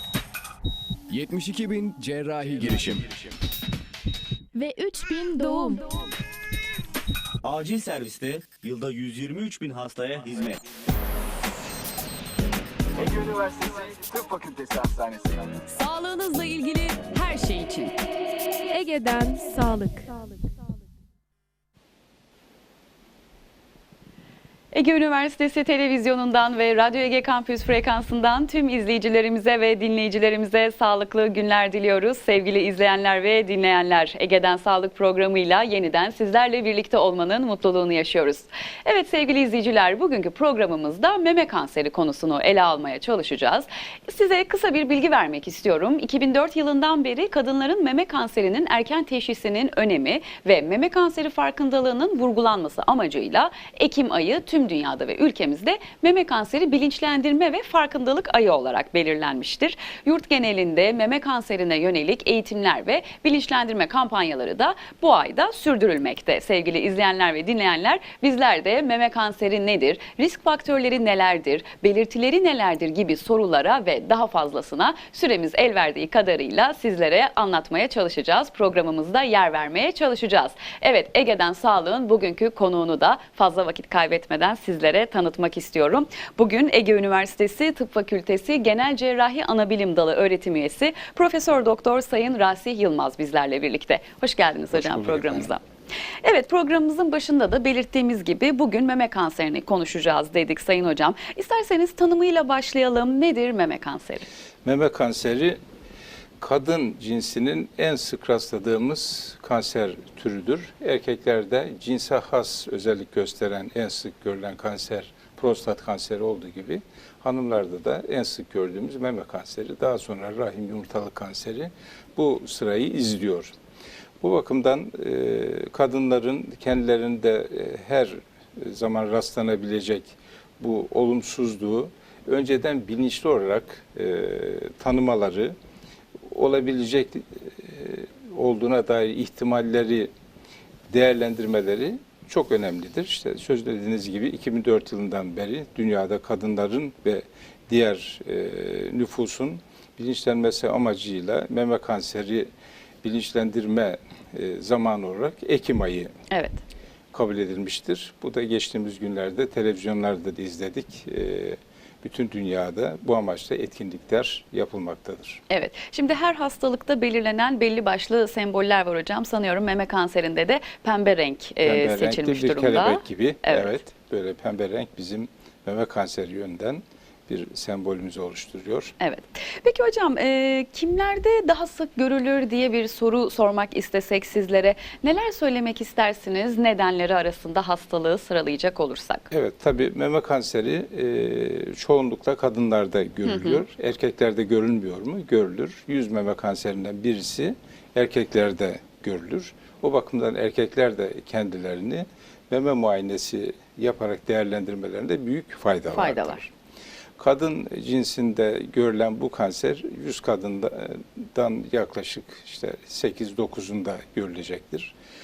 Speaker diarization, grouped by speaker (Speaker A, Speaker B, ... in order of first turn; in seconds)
Speaker A: 1.1-3.4
Speaker B: 4.5-5.8, 18.7-20.5
Speaker C: 7.4-10.6
Speaker D: 13.0-15.7
Speaker E: 15.7-17.9, 24.7-95.6, 96.2-104.3, 156.3-156.6, 165.5-173.8, 179.0-189.3, 193.2-193.7, 205.9-206.4
Speaker F: 94.7-95.5, 104.6-105.6, 106.4-123.5, 124.2-135.6, 136.3-140.1, 140.9-152.5, 153.0-156.1, 157.1-165.4, 171.6-178.9, 189.3-206.5, 207.2-214.9